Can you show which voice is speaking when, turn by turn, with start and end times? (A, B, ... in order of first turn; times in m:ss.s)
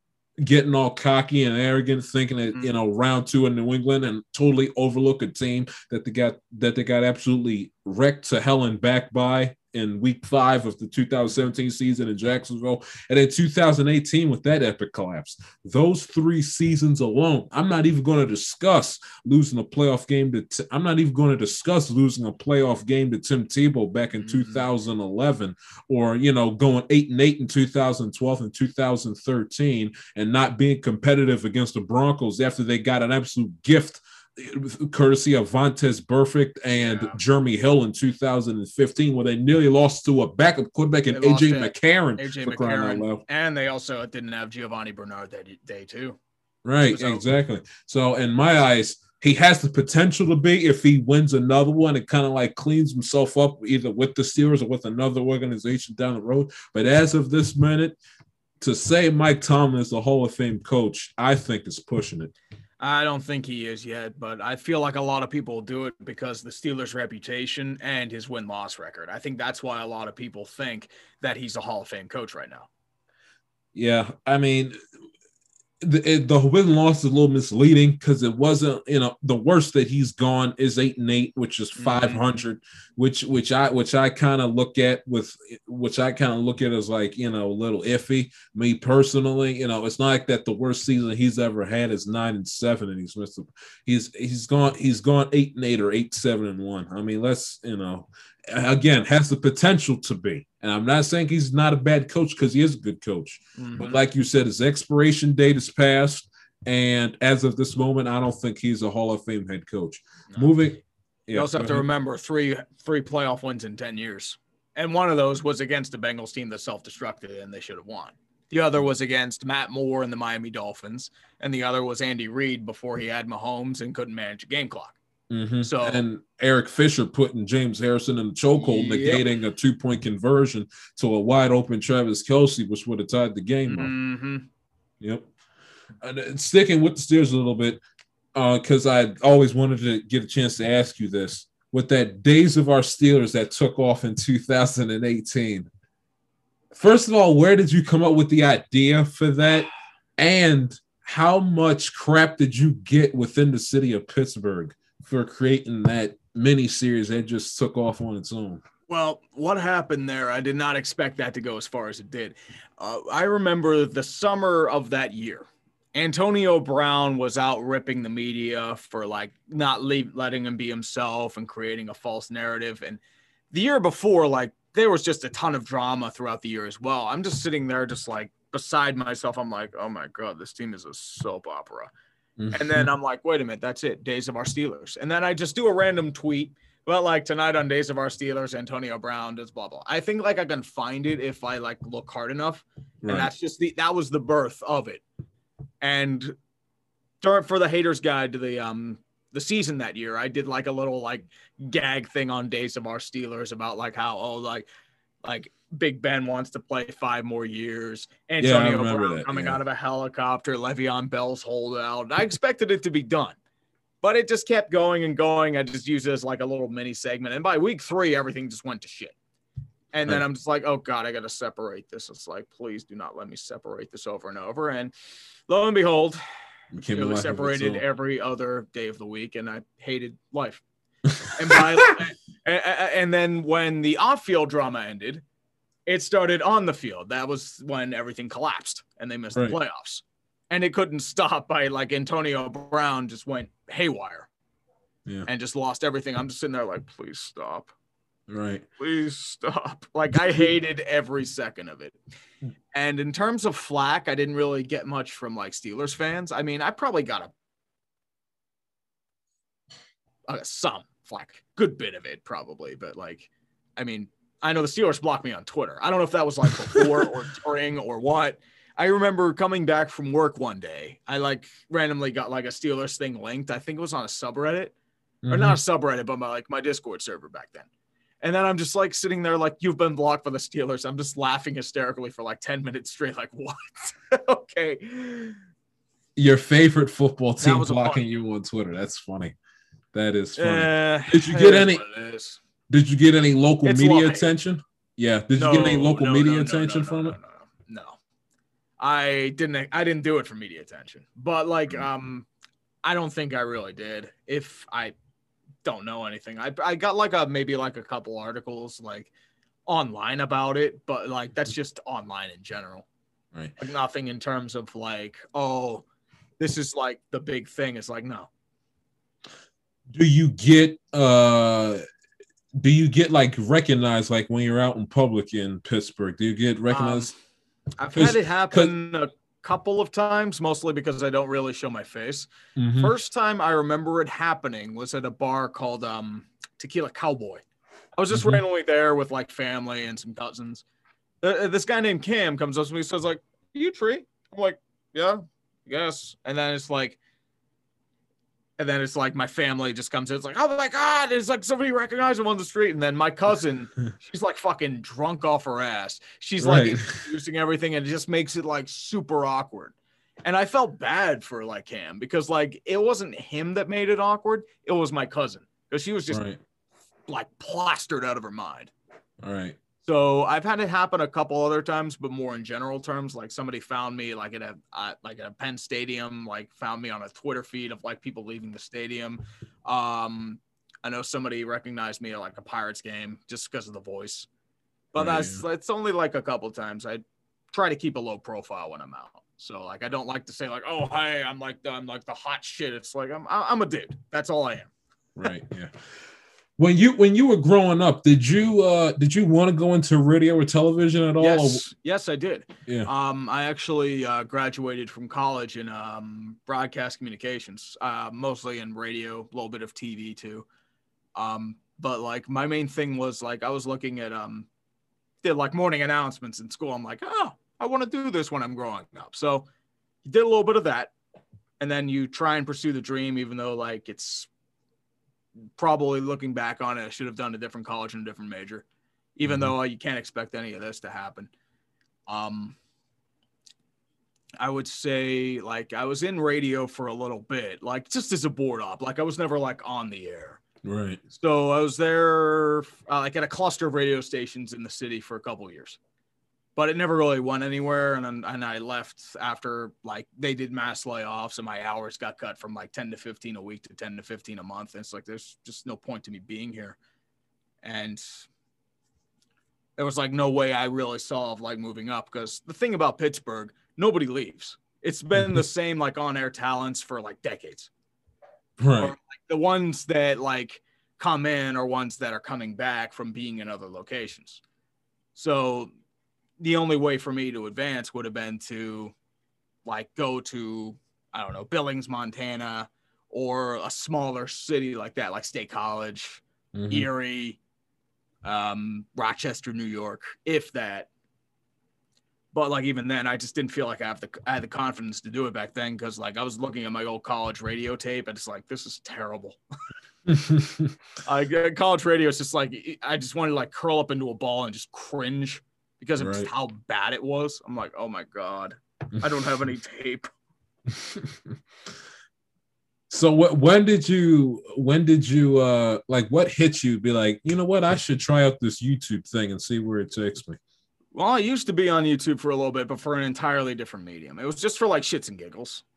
0:00.4-0:43.2 A
0:24.2-0:24.6 B
0:36.8-0:37.2 B
0:41.1-0:46.2 B
0:46.6-0:58.0 A
0:46.9-0:47.2 B
0:58.6-1:02.3 A
1:02.8-1:12.7 B
1:13.7-1:14.8 A
1:15.8-1:51.8 A
1:21.8-1:22.2 B
1:43.6-1:44.0 B
1:51.3-2:05.0 B
2:05.3-2:13.9 A
2:05.6-2:06.0 B
2:08.6-2:09.2 B
2:13.7-2:14.4 B
2:15.0-2:15.3 A
2:16.0-2:17.8 A
2:18.3-2:25.7 A
2:26.7-2:38.6 A
2:38.9-2:53.0 B
2:53.5-3:01.9 B
3:02.4-3:02.9 A
3:02.5-3:15.0 B
3:13.0-3:13.3 A
3:15.8-3:16.3 B
3:17.2-3:24.6 B
3:25.2-3:33.4 B
3:28.4-3:29.6 A
3:34.0-3:39.1 B
3:39.9-3:44.9 B
3:45.5-3:46.2 B
3:46.7-3:47.8 A
3:46.9-3:50.6 B
3:51.1-3:51.9 A
3:51.3-3:55.2 B
3:55.9-4:04.3 B
4:05.3-4:07.7 B
4:08.3-4:08.6 A
4:08.8-4:12.0 B
4:12.7-4:17.3 B
4:20.3-4:34.7 B
4:35.2-4:35.6 A
4:35.3-4:37.7 B
4:38.2-4:45.4 B
4:46.2-4:49.3 A
4:47.4-4:48.0 B
4:49.9-4:51.8 A
4:50.4-4:52.4 B
4:52.7-4:57.2 A
4:53.6-4:54.3 B
4:55.4-4:58.0 B
4:58.8-5:02.2 B
5:02.8-5:04.9 B
5:05.6-5:09.1 B
5:09.7-5:12.8 B
5:13.6-5:15.8 B
5:16.4-5:18.3 B
5:19.9-5:21.8 A
5:22.6-5:27.1 A
5:26.7-5:27.1 B
5:27.8-5:37.4 B
5:27.9-5:28.7 A
5:32.6-5:32.9 A
5:38.0-5:40.6 B
5:38.1-5:38.4 A
5:41.2-5:47.0 B
5:48.6-6:06.2 B
5:56.4-5:57.0 A
6:06.1-6:06.4 A
6:07.1-6:08.7 B
6:09.2-6:09.6 A
6:09.8-6:24.3 B
6:24.9-6:27.0 B
6:25.0-6:25.4 A
6:27.5-6:34.7 B
6:35.2-6:35.7 A
6:36.6-6:41.6 A
6:41.2-6:50.4 B
6:51.1-6:54.5 B
6:55.2-6:59.4 B
7:00.0-7:00.9 B
7:01.6-7:04.3 B
7:05.6-7:08.6 B
7:09.2-7:11.3 B
7:09.2-7:09.5 A
7:12.1-7:12.6 B
7:14.4-7:20.4 B
7:20.6-7:21.0 A
7:21.1-7:25.8 B
7:26.6-7:36.8 B
7:37.6-7:38.2 B
7:39.8-7:47.7 B
7:48.6-7:48.9 A
7:48.8-7:54.4 B
7:55.1-7:55.7 B
7:56.4-7:58.9 B
7:59.6-8:07.4 B
8:06.5-8:06.9 A
8:08.2-8:10.9 B
8:12.3-8:19.4 B
8:20.1-8:20.7 A
8:21.0-8:30.1 B
8:26.0-8:26.3 A
8:30.8-8:31.1 A
8:32.9-8:40.4 A
8:40.9-8:45.6 B